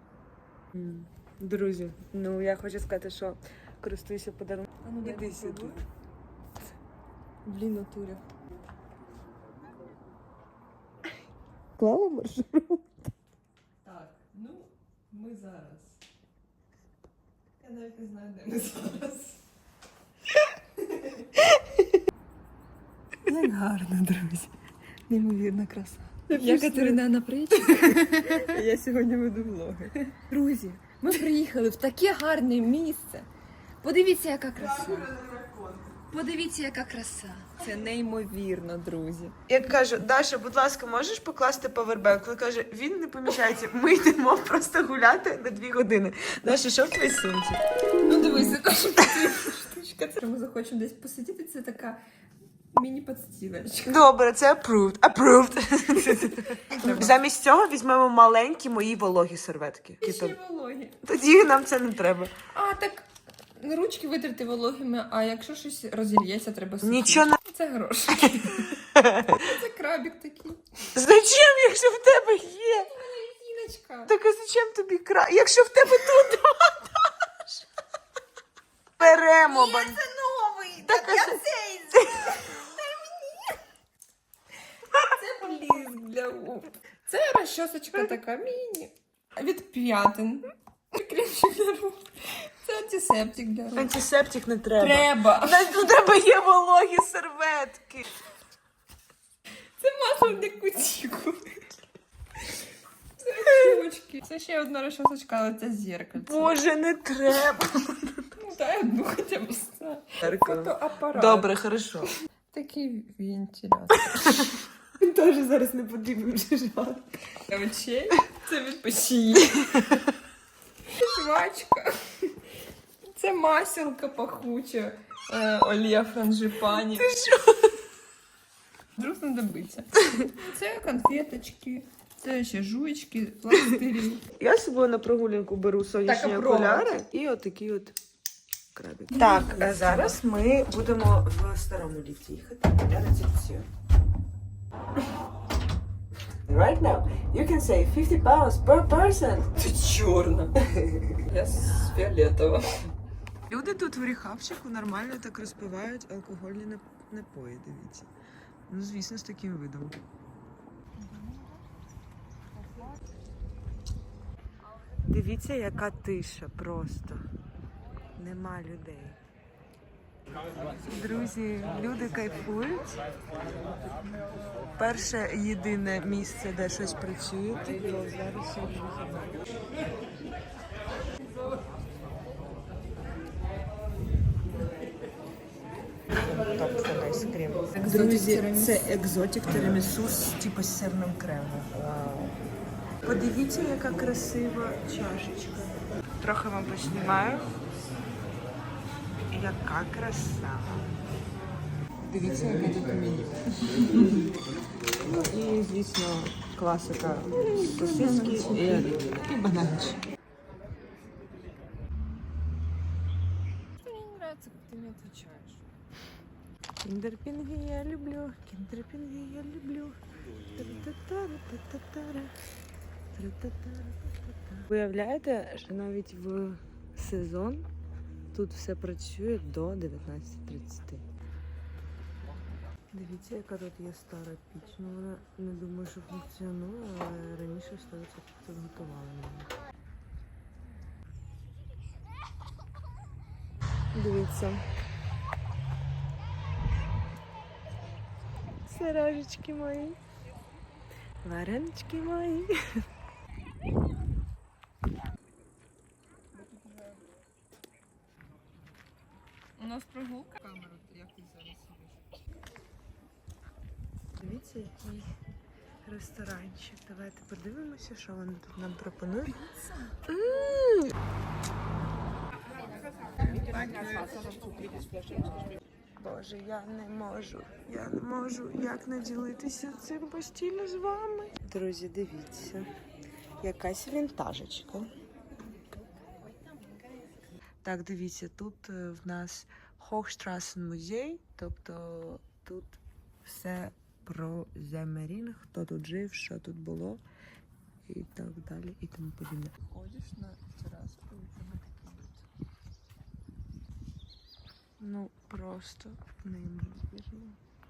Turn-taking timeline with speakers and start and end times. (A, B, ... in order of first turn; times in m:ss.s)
0:00.7-0:05.8 A
0:04.8-0:05.8 B
0:07.4-0:08.2 B
0:11.8-0:12.9 A
0:13.8-0:16.0 B
0:17.6-0:19.4 B
0:20.9-0:21.2 B
0:23.2-0:24.5 B
0:25.1-0:33.3 B
0:26.3-0:27.0 A
0:27.6-0:28.5 A
0:33.8-0:35.1 B
0:34.8-0:35.9 A
0:36.1-0:39.4 B
0:39.5-0:47.6 A
0:48.0-0:52.0 B
0:52.7-0:54.0 B
0:53.9-1:00.4 A
0:56.7-0:57.2 B
1:00.0-1:01.0 B
1:01.0-1:02.3 A
1:02.5-1:10.9 B
1:06.8-1:07.4 A
1:08.7-1:09.4 A
1:10.9-1:12.9 A
1:12.4-1:14.1 B
1:14.1-1:17.5 A
1:19.0-1:20.0 A
1:19.0-1:23.6 B
1:20.8-1:21.4 A
1:22.0-1:22.4 A
1:24.9-1:33.9 B
1:33.8-1:38.1 A
1:34.8-1:35.9 B
1:39.8-1:41.4 B
1:43.2-1:46.6 B
1:46.2-1:48.4 A
1:48.4-1:51.5 B
1:50.2-1:52.1 A
1:52.5-1:54.6 B
1:55.0-1:57.0 A
1:57.5-2:00.0 B
2:00.9-2:02.4 B
2:03.1-2:07.1 B
2:06.9-2:07.7 A
2:09.0-2:14.2 B
2:14.4-2:18.0 A
2:16.0-2:17.0 B
2:18.8-2:23.7 A
2:19.1-2:20.2 B
2:26.5-2:29.7 A
2:29.6-2:30.5 B
2:30.6-2:31.2 A
2:31.2-2:32.9 B
2:33.5-2:38.1 A
2:38.7-2:40.0 A
2:41.0-2:41.6 B
2:45.1-2:47.2 A
2:48.2-2:49.2 A
2:50.9-2:53.0 A
2:54.8-2:59.5 A
3:06.2-3:12.4 A
3:07.7-3:08.9 B
3:13.0-3:17.5 A
3:19.3-3:20.9 A
3:22.1-3:24.2 A
3:25.0-3:30.0 A
3:27.4-3:28.9 B
3:33.8-3:35.6 B
3:36.8-3:40.0 A
3:40.6-3:42.3 A
3:43.2-3:47.7 A
3:48.3-3:51.0 A
3:52.9-3:59.5 A
4:03.9-4:04.7 A
4:08.7-4:10.0 A
4:11.2-4:12.6 A
4:16.3-4:17.1 B
4:19.6-4:22.0 B
4:24.2-4:25.1 A
4:25.8-4:29.5 A
4:29.4-4:30.0 B
4:30.1-4:30.9 A
4:33.3-4:35.0 B
4:36.0-4:42.7 A
4:43.4-4:44.9 A
4:47.6-4:57.0 A
4:57.9-4:59.6 A
4:59.6-5:02.2 B
5:04.8-5:07.4 A